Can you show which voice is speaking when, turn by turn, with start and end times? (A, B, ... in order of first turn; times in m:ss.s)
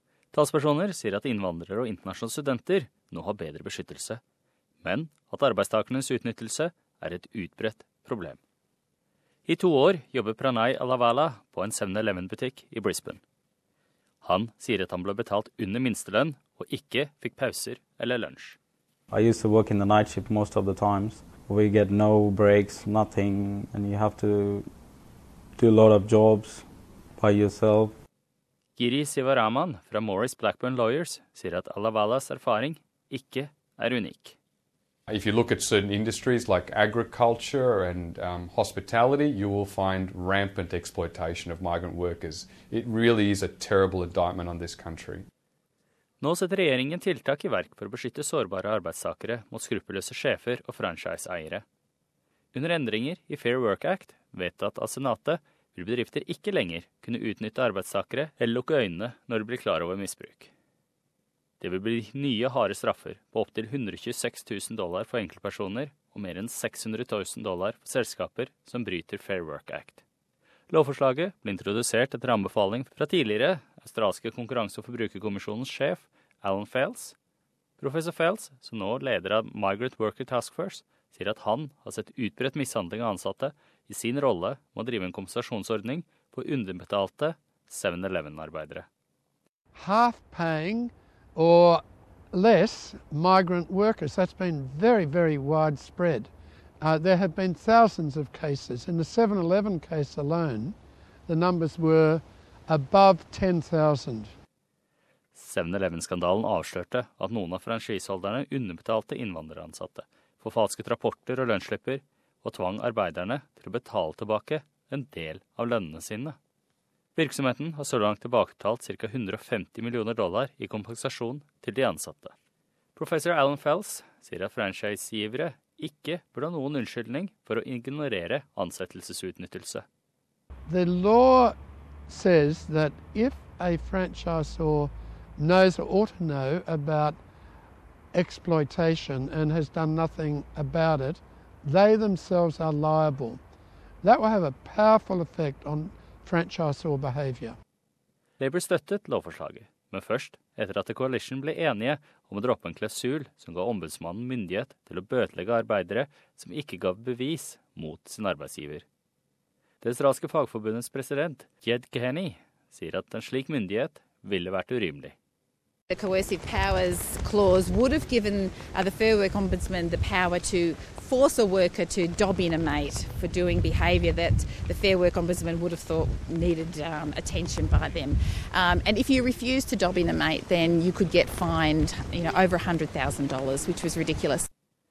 0:00.3-0:04.2 A
0:04.8-0:08.4 A
0:09.5-0:13.2 A
0:14.2-0:18.6 A
0:19.1-0:24.7 B
0:25.6-0:26.7 B
0:27.2-0:28.0 B
0:28.8-0:34.4 A
0:35.1-0:45.3 C
0:46.2-0:51.6 A
0:52.5-1:00.5 A
1:01.6-1:10.0 A
1:10.7-1:17.2 A
1:17.8-1:28.9 A
1:29.7-1:36.3 D
1:36.8-1:40.8 D
1:41.3-1:44.3 D
1:45.4-1:56.4 A
1:57.2-2:02.3 A
2:03.0-2:09.8 A
2:10.7-2:11.6 D
2:12.1-2:17.2 D
2:18.1-2:23.4 D
2:24.0-2:27.6 D
2:28.4-2:38.8 A
2:39.8-2:45.2 A
2:45.9-3:04.5 E